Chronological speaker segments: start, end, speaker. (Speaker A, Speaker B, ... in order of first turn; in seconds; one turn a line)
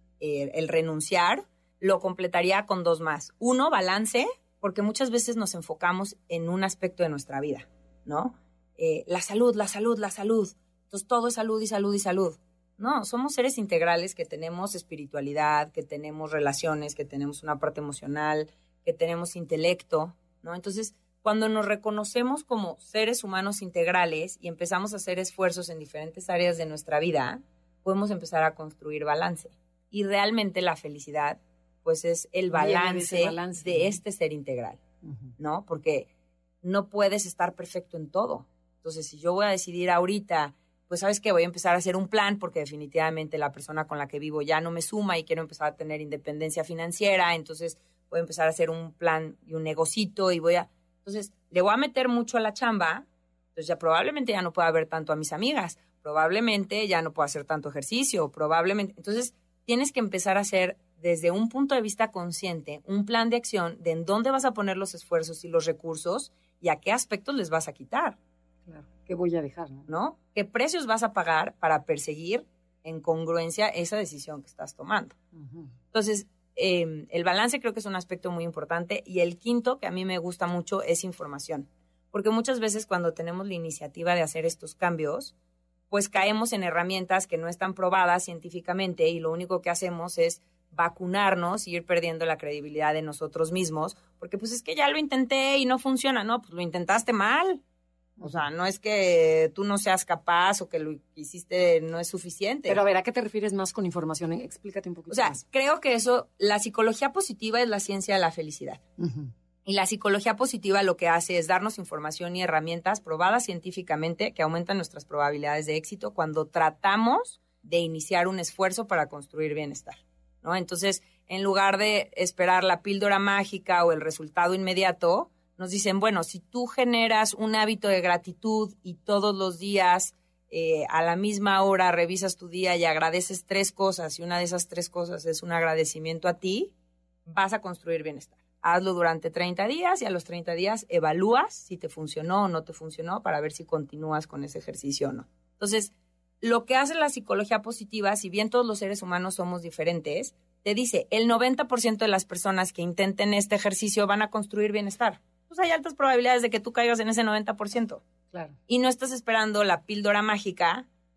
Speaker A: 0.2-34.8
Speaker B: 32.5-34.0
Speaker B: 35.0-35.3
Speaker A: 35.4-36.1
Speaker A: 36.6-68.2
Speaker B: 68.7-69.9
Speaker A: 69.9-75.2
Speaker B: 75.3-75.7
Speaker A: 75.9-85.3
Speaker A: 85.9-97.6
Speaker B: 98.2-98.5
Speaker A: 98.2-102.8
Speaker B: 102.7-105.4
Speaker A: 105.1-108.8
Speaker B: 109.0-109.3
Speaker A: 109.7-136.7
Speaker A: 137.3-158.0
Speaker B: 158.3-158.6
Speaker A: 158.7-160.9